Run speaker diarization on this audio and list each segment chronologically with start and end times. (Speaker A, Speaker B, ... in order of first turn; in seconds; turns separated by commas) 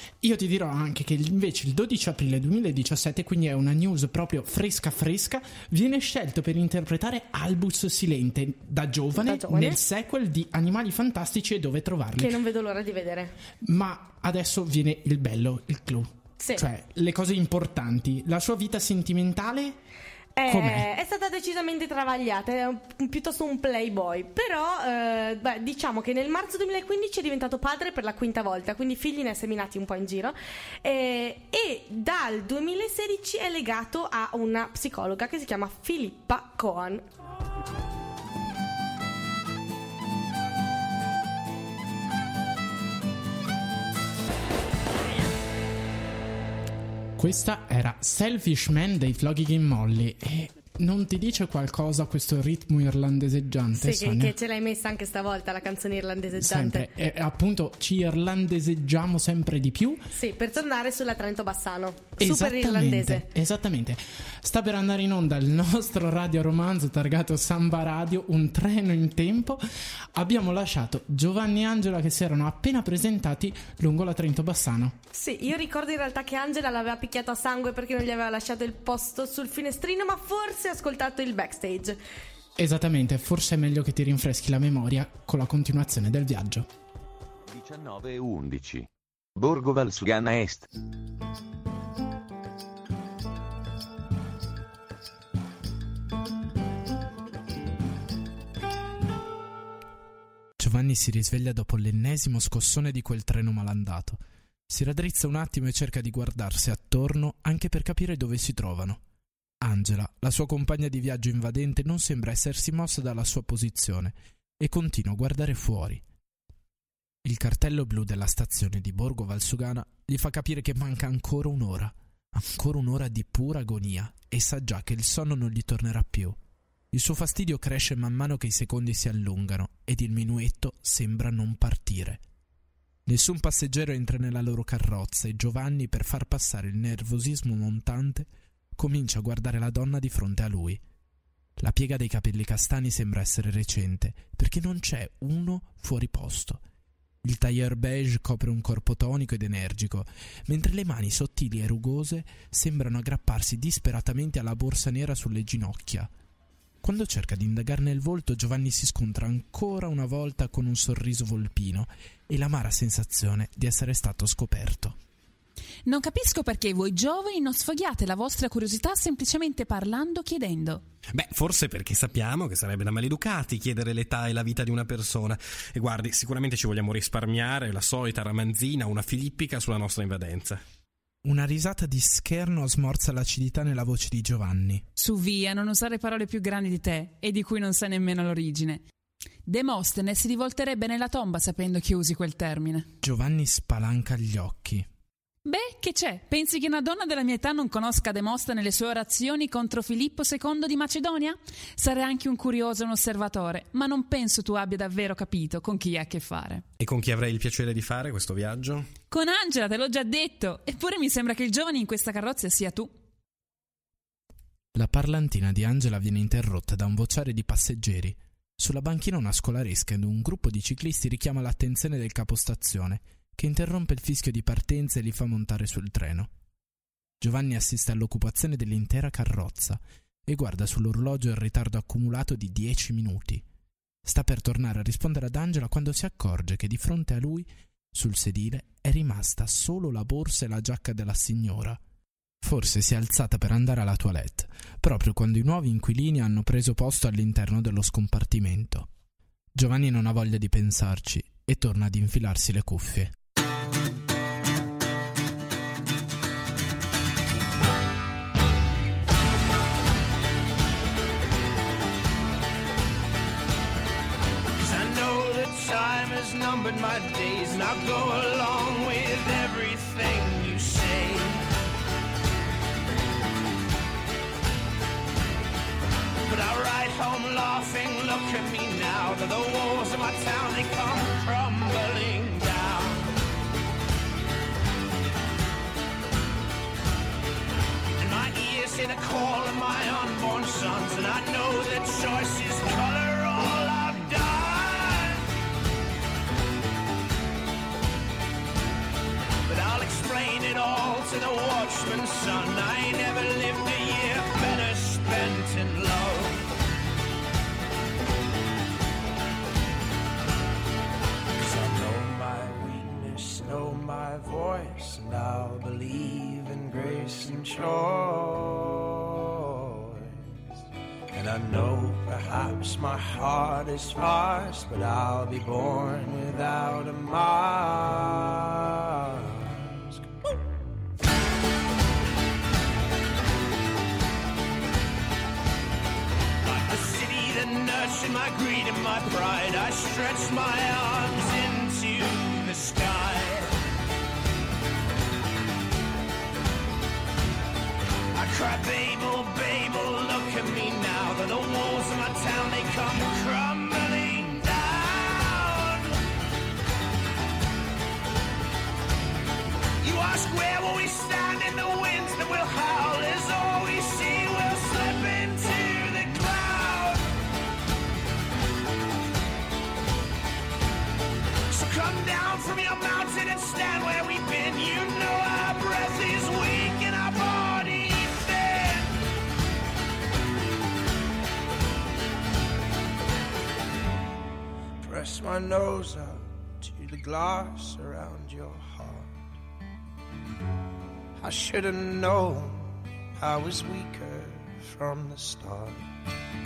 Speaker A: 0.2-12.4, Speaker B: 9.2-9.8, Speaker B: 12.2-13.4, Speaker A: 13.6-19.8, Speaker B: 16.4-16.6, Speaker B: 20.4-37.0, Speaker A: 20.5-20.9, Speaker A: 47.2-54.4, Speaker B: 53.8-56.9, Speaker A: 56.4-60.1, Speaker B: 60.1-63.3, Speaker A: 62.2-69.6, Speaker A: 70.1-75.0, Speaker B: 75.1-82.0, Speaker A: 82.6-86.7, Speaker C: 87.5-90.7, Speaker A: 100.6-109.0, Speaker A: 109.6-116.0, Speaker A: 117.2-126.4, Speaker A: 126.9-132.2, Speaker A: 133.1-140.8, Speaker A: 141.6-146.6, Speaker A: 147.2-156.1, Speaker A: 156.8-165.0, Speaker D: 165.8-170.8, Speaker E: 171.1-180.6, Speaker A: 181.2-184.8, Speaker D: 185.0-188.8, Speaker D: 189.5-192.9, Speaker A: 193.0-194.9, Speaker D: 195.4-206.7, Speaker E: 206.8-209.0, Speaker D: 209.1-212.9, Speaker A: 214.7-226.3, Speaker A: 227.2-233.4, Speaker A: 234.0-241.8, Speaker A: 242.4-248.9, Speaker A: 249.6-253.2, Speaker F: 264.6-271.4, Speaker F: 276.3-283.1, Speaker F: 288.0-295.3, Speaker F: 299.5-306.4, Speaker F: 311.4-320.2, Speaker F: 321.1-330.1, Speaker F: 336.4-343.5, Speaker F: 348.1-356.0, Speaker F: 359.8-367.1, Speaker F: 371.5-379.0, Speaker F: 384.8-389.1, Speaker F: 391.2-395.9